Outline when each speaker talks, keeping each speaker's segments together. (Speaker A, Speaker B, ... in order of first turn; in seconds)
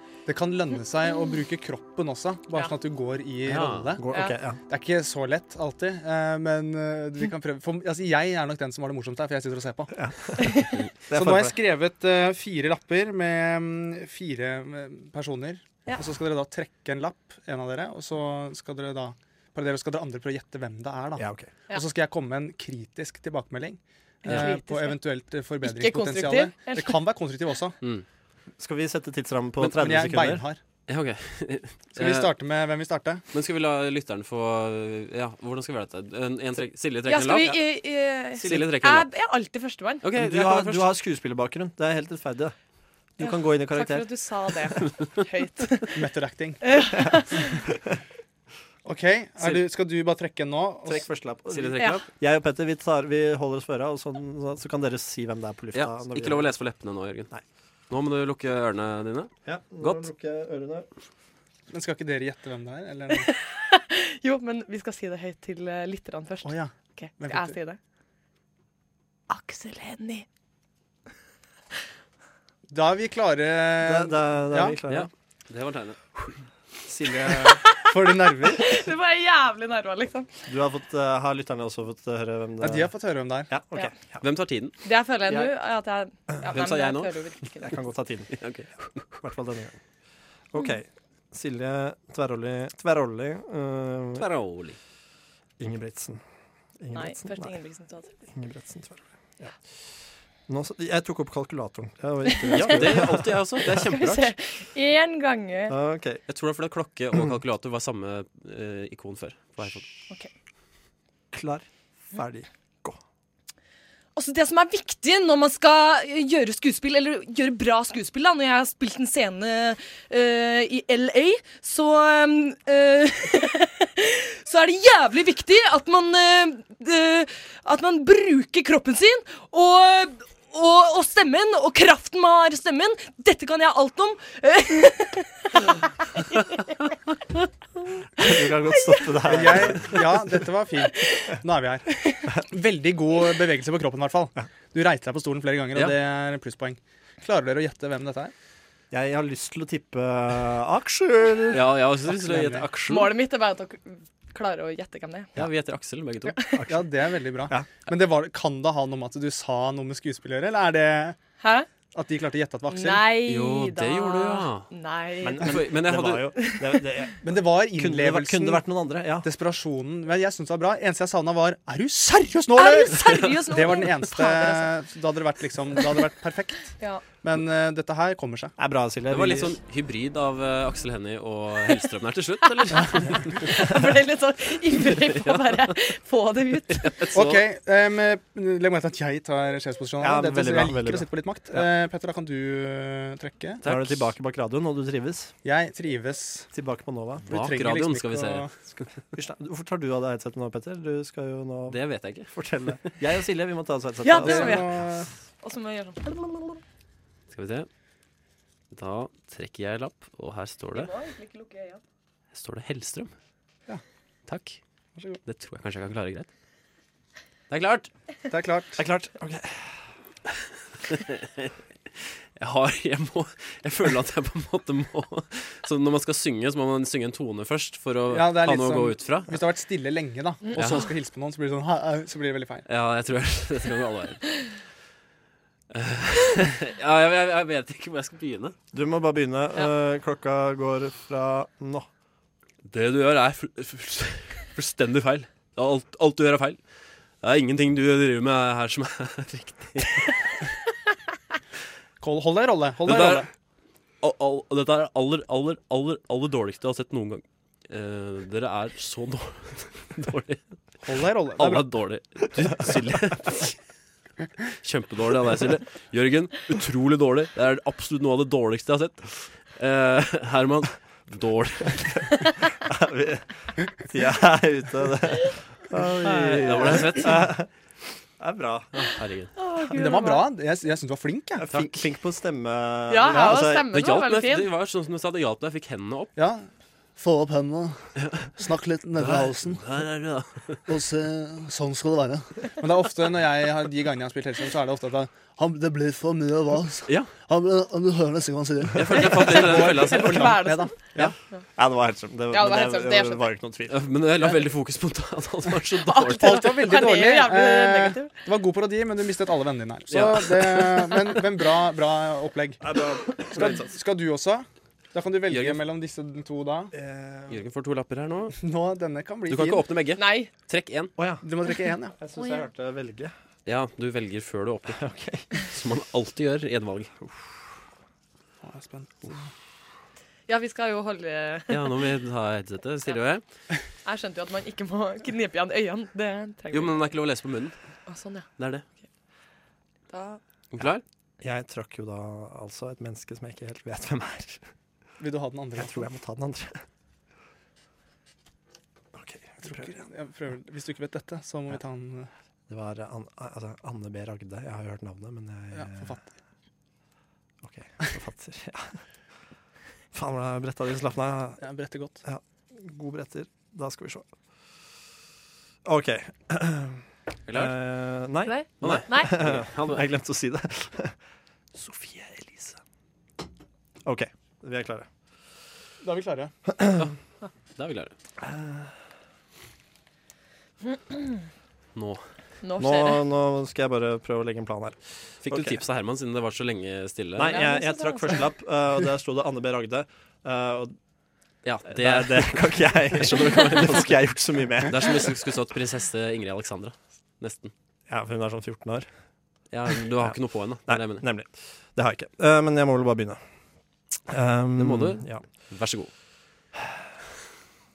Speaker A: 0.2-4.0, 4.7-9.9, 11.1-27.8, 29.7-30.6, 31.9-33.2, 45.9-46.8, 48.8-51.1, 61.7-63.3, 66.4-67.5, 72.7-74.8, 77.9-78.8, 82.6-83.5, 139.2-141.8, 142.4-148.3, 152.2-152.7, 156.7-161.2, 161.9-163.1, 167.2-168.6, 169.2-178.5, 187.1-193.6, 195.4-196.5, 197.2-198.5, 204.1-205.1, 218.3-218.8, 228.1-232.7, 252.0-253.3, 260.8-261.7, 279.7-281.5, 286.1-287.8, 288.4-289.6, 290.6-301.1, 306.2-312.7, 313.3-316.7, 318.4-319.6, 321.2-321.9, 328.4-329.3, 345.0-345.9, 349.4-352.1, 355.5-356.0, 361.4-362.0, 375.8-376.3
Speaker B: 3.4-4.0, 30.9-32.3, 33.3-37.5, 38.4-39.1, 40.0-40.9, 51.5-52.0, 55.7-57.3, 57.9-60.1, 74.9-76.4, 84.2-84.7, 86.5-87.2, 88.3-89.0, 94.1-94.8, 102.5-104.3, 106.3-109.9, 151.5-153.1, 155.3-156.4, 163.2-164.7, 165.4-166.3, 173.0-173.4, 179.1-183.5, 184.8-185.6, 186.7-187.4, 193.6-194.1, 197.3-198.9, 201.7-202.3, 207.3-207.7, 208.7-210.9, 212.3-213.1, 214.3-214.6, 215.2-216.3, 217.5-217.9, 220.9-221.5, 222.4-229.4, 230.5-230.8, 232.7-234.2, 235.7-238.6, 242.7-246.6, 247.2-250.1, 252.8-253.3, 254.0-260.4, 261.4-263.5, 264.6-272.1, 276.0-277.3, 278.7-279.3, 283.1-286.1, 288.0-288.2, 289.0-290.6, 298.7-300.4, 303.7-306.5, 309.9-311.1, 315.3-315.6, 317.3-318.4, 319.3-320.9, 323.4-326.9, 331.5-333.2, 336.5-337.6, 338.4-338.6, 340.5-340.8, 367.3-367.5, 368.6-369.9, 377.6-377.9, 381.7-382.0, 385.2-387.5, 391.4-394.0, 394.6-397.5, 399.5-401.0, 404.6-405.9
Speaker C: 4.0-4.6, 9.9-11.5, 21.2-21.5, 28.6-30.4, 40.1-42.5, 43.2-44.1, 47.7-47.9, 50.9-56.5, 59.4-60.9, 73.8-75.1, 76.9-77.6, 80.5-82.9, 83.5-84.2, 87.6-88.3, 89.2-89.8, 90.5-94.3, 95.6-96.2, 96.8-97.5, 98.3-99.5, 100.5-103.8, 105.7-106.2, 111.3-113.0, 138.2-139.9, 148.9-151.6, 165.2-169.3, 178.6-179.6, 190.0-191.6, 193.6-195.3, 196.5-197.3, 199.1-201.8, 202.3-204.7, 218.8-219.7, 238.7-241.9, 272.6-277.5, 278.2-278.7, 281.4-283.7, 301.6-303.8, 312.6-313.7, 316.7-317.4, 321.0-321.2, 322.0-323.1, 324.7-325.3, 341.2-344.4, 345.6-346.6, 348.9-349.8, 352.5-355.9, 357.4-358.8, 359.9-361.4, 362.0-364.1, 365.6-370.9, 371.5-372.6, 373.8-374.9, 376.6-376.8, 378.2-378.7, 382.6-385.6, 387.2-390.8, 391.7-395.1, 397.9-398.9, 400.7-403.2, 404.1-405.2
Speaker D: 4.1-4.4, 10.4-10.7, 24.2-25.0, 25.6-27.0, 37.0-40.0, 43.2-46.0, 46.6-47.6, 63.1-67.8, 69.3-70.2, 77.4-80.3, 84.8-87.8, 96.9-98.1, 102.2-105.7, 114.2-136.9, 138.7-139.1, 152.9-155.3, 156.2-156.6, 161.4-161.7, 162.7-165.6, 166.3-166.8, 172.5-174.7, 176.8-177.0, 182.5-187.0, 204.0-204.7, 205.4-206.6, 210.7-211.8, 279.4-280.2, 282.9-284.5, 299.0-300.8, 302.3-303.2, 305.8-308.1, 320.0-320.3, 322.2-322.5, 330.3-331.6, 333.8-336.7, 337.9-338.3, 339.9-340.2, 368.2-369.1, 382.4-383.0, 387.3-388.2